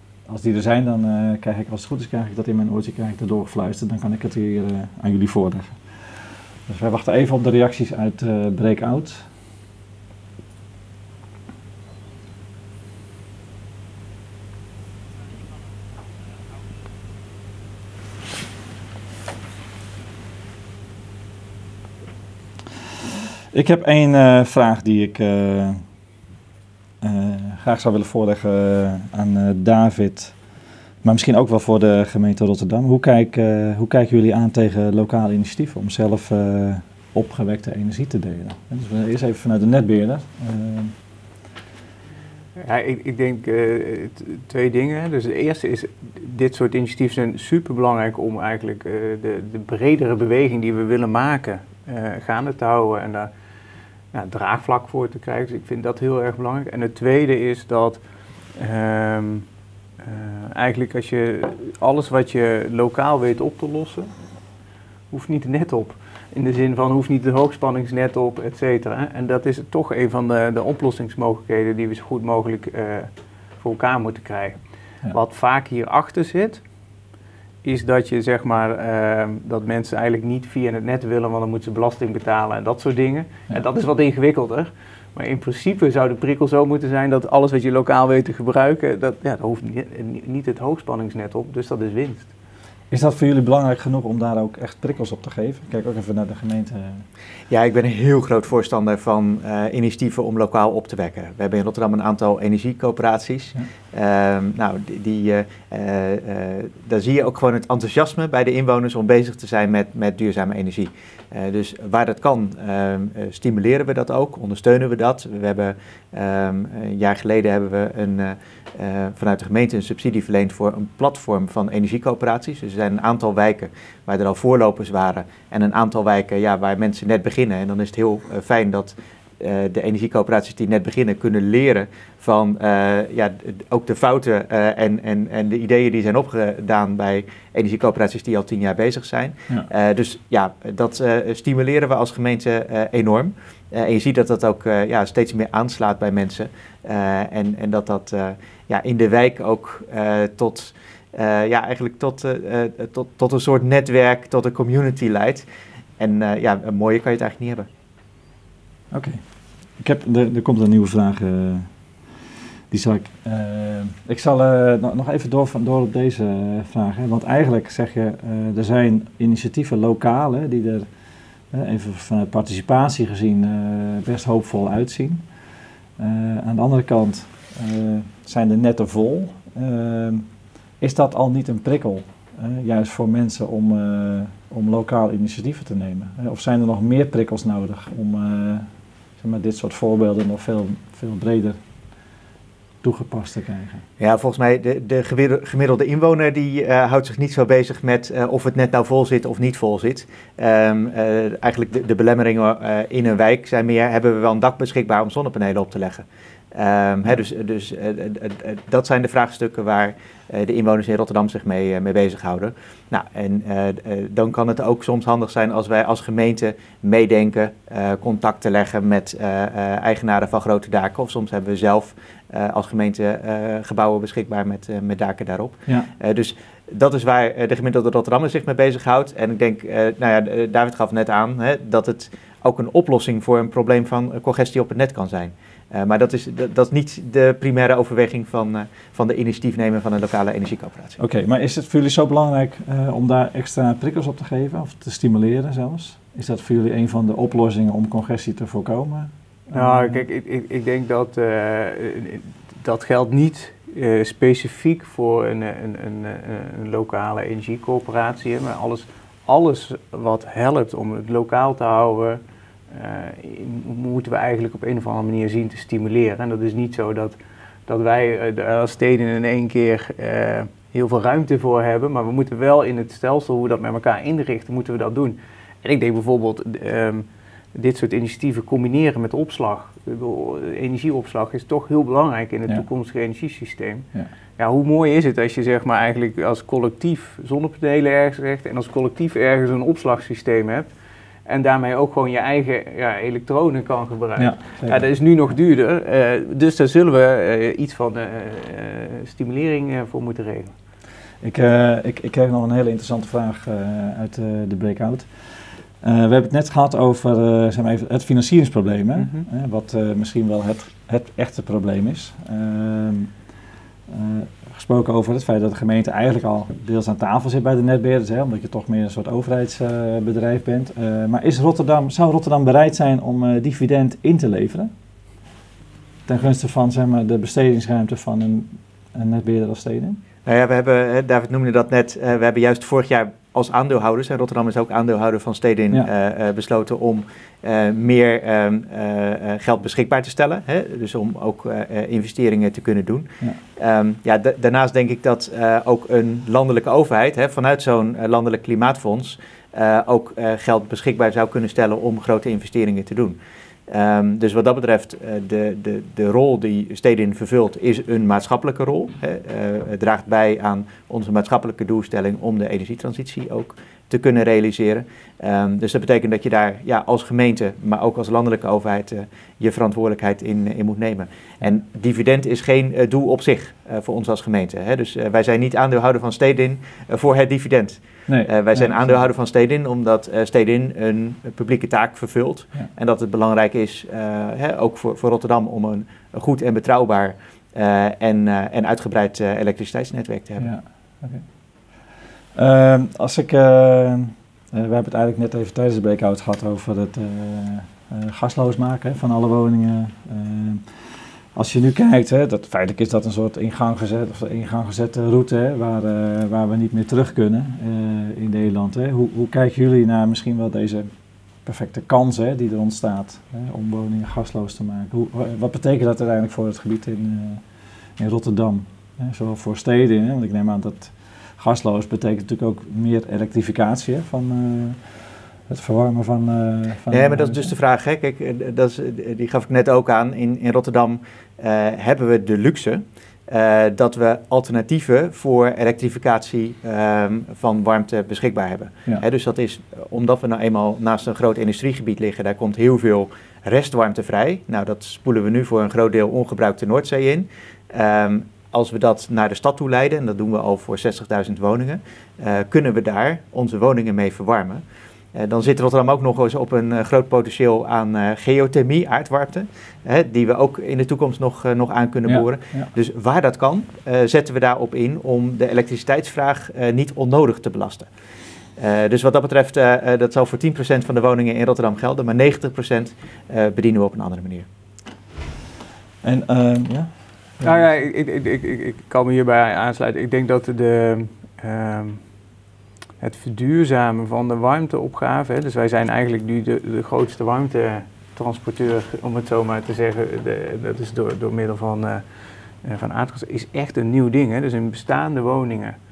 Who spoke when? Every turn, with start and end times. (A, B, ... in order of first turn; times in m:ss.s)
0:00.3-0:09.3 A
0:23.5-0:25.8 A
0:27.0-0:30.4 A
0:31.0-0:41.0 A
0:42.6-0:53.3 B
0:54.1-0:58.0 B
0:58.6-0:59.5 B
1:00.0-1:04.1 B
1:05.1-1:13.1 B
1:13.6-1:14.6 B
1:15.1-1:16.6 B
1:17.6-1:32.3 B
1:32.9-1:37.1 A
1:37.5-2:35.5 C
2:36.0-2:37.7 C
2:38.9-2:39.2 A
2:39.8-2:41.7 A
2:42.7-2:50.9 A
2:51.5-2:55.2 A
2:56.0-3:00.3 A
3:00.8-3:11.6 A
3:12.8-3:13.9 A
3:14.0-4:01.0 C
4:01.0-4:10.0 A
4:09.5-4:43.9 B
4:44.4-4:50.7 B
4:51.3-5:00.5 B
4:54.2-4:54.9 A
5:01.2-5:05.1 A
5:05.8-5:13.1 A
5:09.0-5:09.2 B
5:13.9-5:24.7 A
5:26.1-5:30.0 A
5:30.2-5:53.2 C
5:53.7-6:30.5 C
6:18.1-6:19.0 A
6:30.4-6:31.2 A
6:32.4-6:40.7 A
6:41.4-6:50.9 A
6:51.4-6:57.4 A
6:58.0-7:07.5 A
7:06.9-7:47.9 C
7:42.1-7:42.7 A
7:48.6-7:54.5 C
7:56.0-7:57.6 A
7:57.4-8:02.0 B
8:03.0-8:12.0 B
8:12.6-8:15.8 B